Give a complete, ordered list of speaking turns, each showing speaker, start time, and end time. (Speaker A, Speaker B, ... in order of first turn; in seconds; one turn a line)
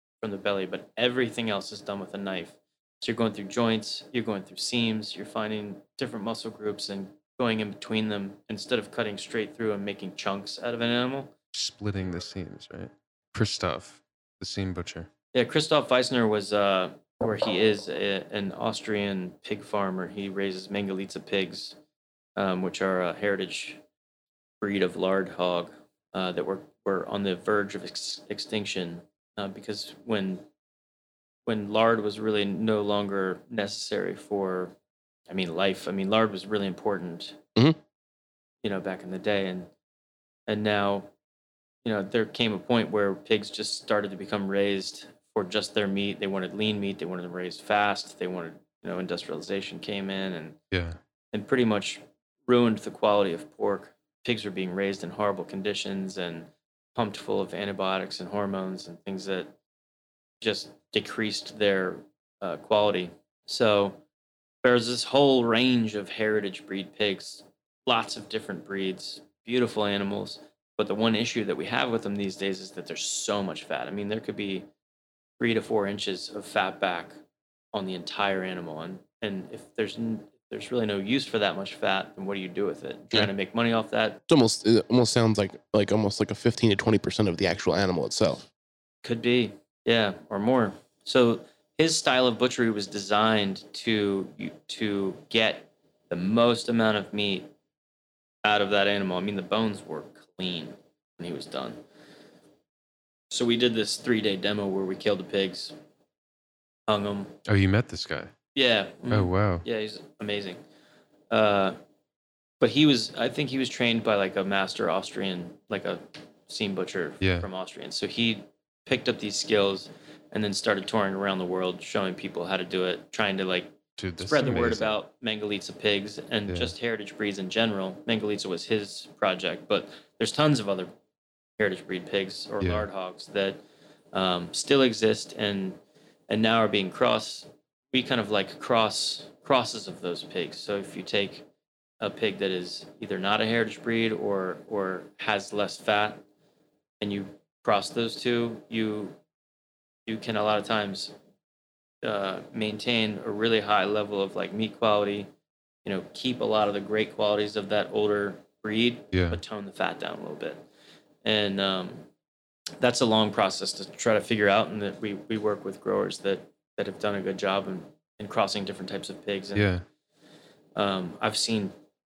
Speaker A: 0.2-11.3
Speaker B: 11.5-15.1
Speaker A: 15.3-21.8
Speaker A: 22.4-23.8
Speaker A: 24.6-30.4
Speaker A: 31.4-34.7
Speaker A: 35.3-37.4
Speaker A: 38.6-39.7
Speaker A: 40.5-41.1
Speaker A: 41.8-50.6
Speaker B: 50.7-51.0
Speaker A: 51.3-59.5
Speaker A: 60.4-64.0
Speaker A: 64.6-74.7
Speaker A: 75.4-77.1
Speaker A: 77.7-84.2
Speaker C: 84.3-88.5
Speaker A: 89.0-97.5
Speaker A: 98.4-101.8
Speaker A: 103.3-105.7
Speaker A: 106.9-107.4
Speaker B: 107.5-108.3
Speaker A: 108.5-110.6
Speaker B: 109.1-109.6
Speaker A: 111.3-111.8
Speaker A: 112.6-130.9
Speaker B: 117.2-117.5
Speaker B: 124.0-125.0
Speaker B: 126.5-126.7
Speaker A: 131.6-133.6
Speaker B: 132.6-132.9
Speaker A: 134.1-141.4
Speaker A: 142.0-146.2
Speaker A: 147.0-149.2
Speaker A: 150.1-151.1
Speaker A: 152.0-155.3
Speaker A: 155.8-160.6
Speaker B: 159.1-159.4
Speaker A: 161.2-162.1
Speaker A: 162.8-169.7
Speaker B: 169.5-169.8
Speaker A: 170.8-171.7